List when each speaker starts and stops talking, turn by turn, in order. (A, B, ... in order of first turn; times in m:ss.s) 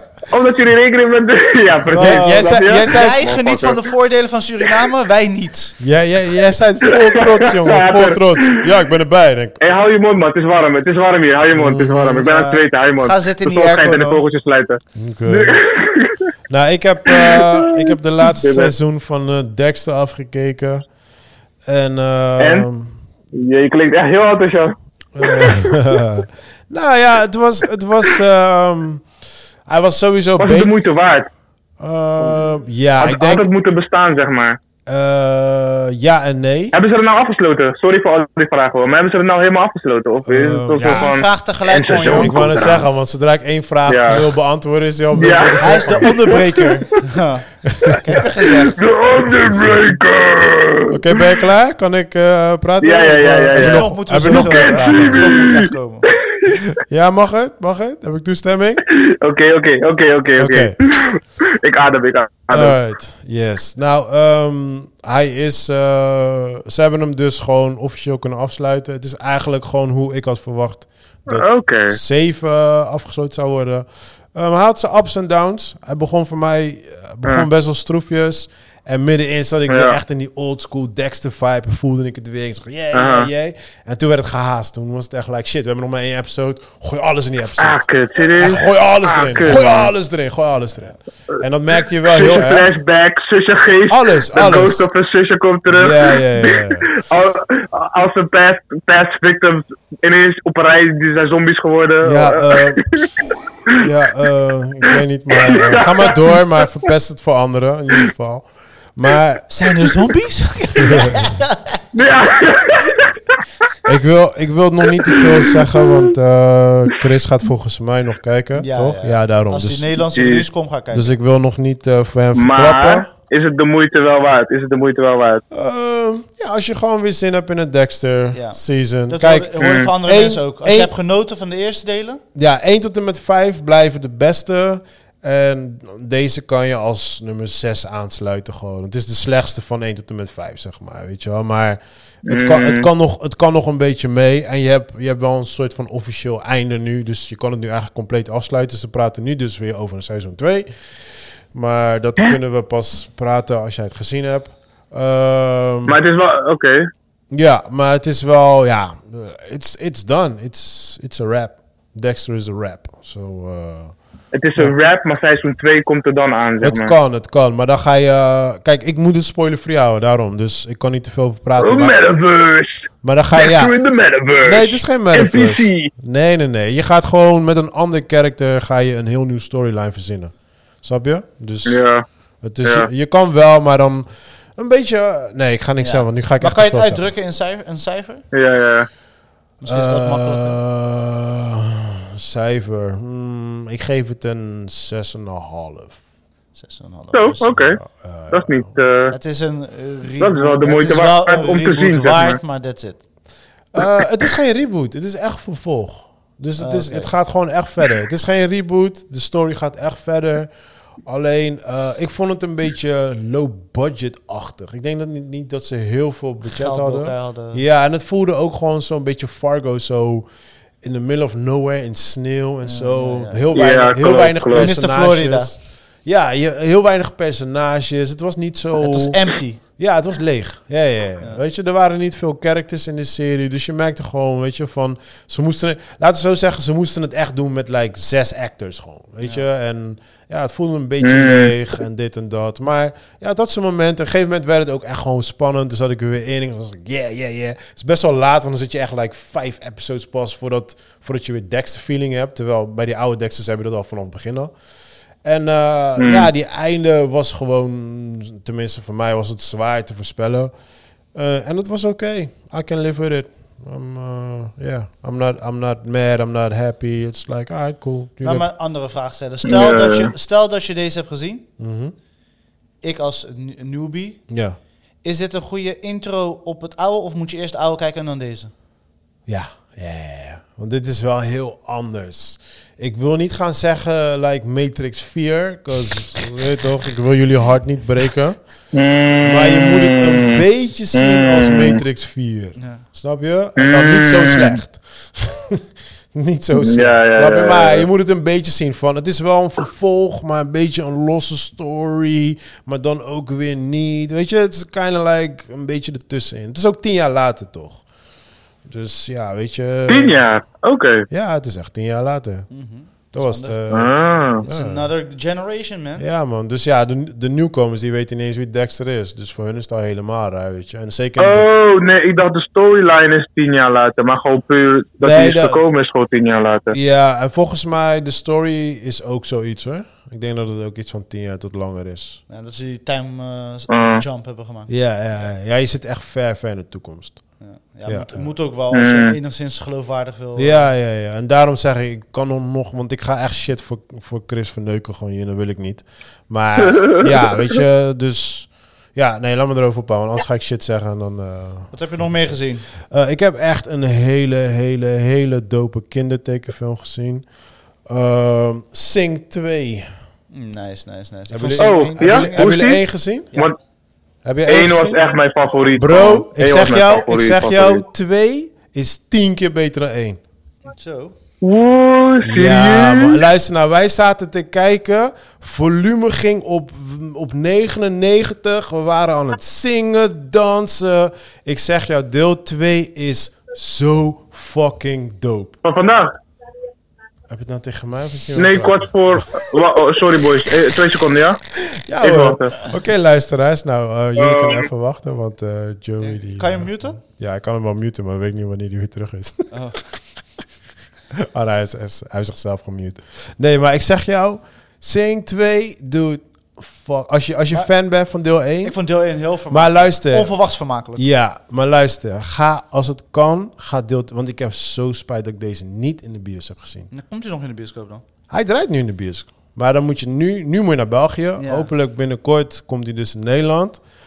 0:00.3-0:03.8 A
0:01.9-0:05.8 B
0:01.9-0:03.2 C
0:05.8-0:09.7 C
0:06.8-0:08.6 A
0:09.6-0:16.3 A
0:11.5-0:12.2 C
0:12.2-0:14.2 B
0:14.9-0:15.6 C
0:16.5-0:20.8 C
0:17.1-0:18.7 A
0:21.6-0:23.0 C
0:22.4-0:22.7 A
0:23.3-0:25.7 A
0:25.1-0:29.1 C
0:29.6-0:30.7 C
0:30.4-0:31.3 A
0:31.8-0:33.5 C
0:33.0-0:34.6 A
0:34.9-0:36.8 C
0:36.7-0:42.9 A
0:40.2-0:41.1 C
0:40.8-0:42.6 B
0:42.0-0:46.1 C
0:43.8-0:44.2 A
0:45.1-0:46.7 A
0:45.6-0:48.8 B
0:47.7-0:48.0 C
0:48.5-0:51.2 A
0:50.9-0:55.6 C
0:52.8-0:55.6 A
0:53.5-0:56.1 B
0:56.2-0:56.6 A
0:56.8-0:58.8 C
0:58.9-1:02.8 A
1:00.4-1:00.8 C
1:02.5-1:27.9 C
1:11.3-1:12.0 A
1:19.7-1:20.0 A
1:22.9-1:23.3 A
1:27.6-1:29.9 A
1:28.4-1:32.7 C
1:32.0-1:43.1 A
1:33.9-1:34.9 C
1:35.7-1:36.9 C
1:42.0-1:42.8 C
1:43.7-1:49.5 C
1:45.3-1:46.6 A
1:49.5-1:51.8 B
1:50.8-1:51.3 C
1:51.9-1:53.4 A
1:53.8-1:59.9 C
1:55.0-1:55.9 A
1:58.6-2:01.2 B
2:00.1-2:00.4 A
2:00.9-2:03.1 C
2:02.3-2:05.4 A
2:05.5-2:10.9 C
2:08.3-2:12.2 B
2:09.6-2:09.9 A
2:12.3-2:36.0 C
2:22.2-2:22.9 A
2:35.8-2:36.9 A
2:37.3-2:43.9 C
2:44.3-2:46.9 A
2:46.6-2:52.0 C
2:51.6-2:55.9 A
2:53.0-2:53.8 C
2:54.4-3:01.8 C
3:01.6-3:02.0 A
3:02.4-3:07.1 C
3:02.6-3:02.9 A
3:05.8-3:08.2 B
3:08.3-3:08.9 A
3:09.6-3:10.6 B
3:09.7-3:16.0 C
3:16.6-3:17.6 B
3:17.1-3:17.8 A
3:17.6-3:18.7 C
3:18.3-3:19.1 A
3:19.1-3:23.0 B
3:20.2-3:22.4 A
3:23.7-3:30.5 C
3:26.6-3:27.1 B
3:31.0-3:40.2 C
3:36.4-3:37.6 B
3:40.8-3:49.2 C
3:42.6-3:43.4 B
3:43.5-3:44.7 A
3:44.5-3:45.5 B
3:48.8-3:49.6 B
3:49.8-4:14.5 C
4:01.0-4:01.5 A
4:15.2-4:20.5 C
4:16.0-4:16.3 A
4:21.1-4:28.5 C
4:28.2-4:31.4 B
4:29.4-4:30.1 A
4:31.6-4:31.9 C
4:32.8-4:34.2 B
4:34.3-4:34.6 C
4:35.0-4:38.5 B
4:39.3-4:48.4 C
4:48.7-4:51.8 A
4:49.2-5:07.8 C
4:52.6-4:52.8 B
4:53.6-4:54.6 A
4:56.5-4:57.9 A
5:08.6-5:10.2 C
5:09.9-5:11.1 A
5:11.1-5:12.5 C
5:12.5-5:13.5 B
5:13.1-5:14.9 C
5:13.7-5:14.4 A
5:14.4-5:16.0 B
5:16.0-5:21.5 C
5:21.2-5:26.8 A
5:25.0-5:25.6 C
5:26.7-5:32.2 C
5:32.3-5:34.7 B
5:33.7-5:34.0 A
5:34.7-5:37.2 C
5:37.4-5:40.7 B
5:37.8-5:38.3 C
5:38.7-5:39.2 A
5:40.4-5:57.2 C
5:46.7-5:47.6 A
5:51.7-5:52.6 B
5:57.9-5:59.9 C
6:00.3-6:02.6 B
6:01.3-6:03.3 C
6:01.6-6:02.8 A
6:04.2-6:05.0 C
6:04.5-6:07.8 A
6:05.8-6:10.2 C
6:10.7-6:11.1 B
6:11.4-6:13.2 A
6:12.2-6:25.6 C
6:25.6-6:26.2 A
6:27.3-6:29.5 C
6:28.3-6:31.4 A
6:31.7-6:39.5 C
6:32.0-6:32.6 A
6:34.2-6:34.7 A
6:36.0-6:37.0 B
6:39.5-6:39.8 B
6:41.3-6:48.8 C
6:48.6-6:51.0 B
6:49.5-6:50.3 C
6:51.0-6:56.9 C
6:56.9-6:58.0 B
6:58.3-7:03.8 C
7:01.4-7:01.7 B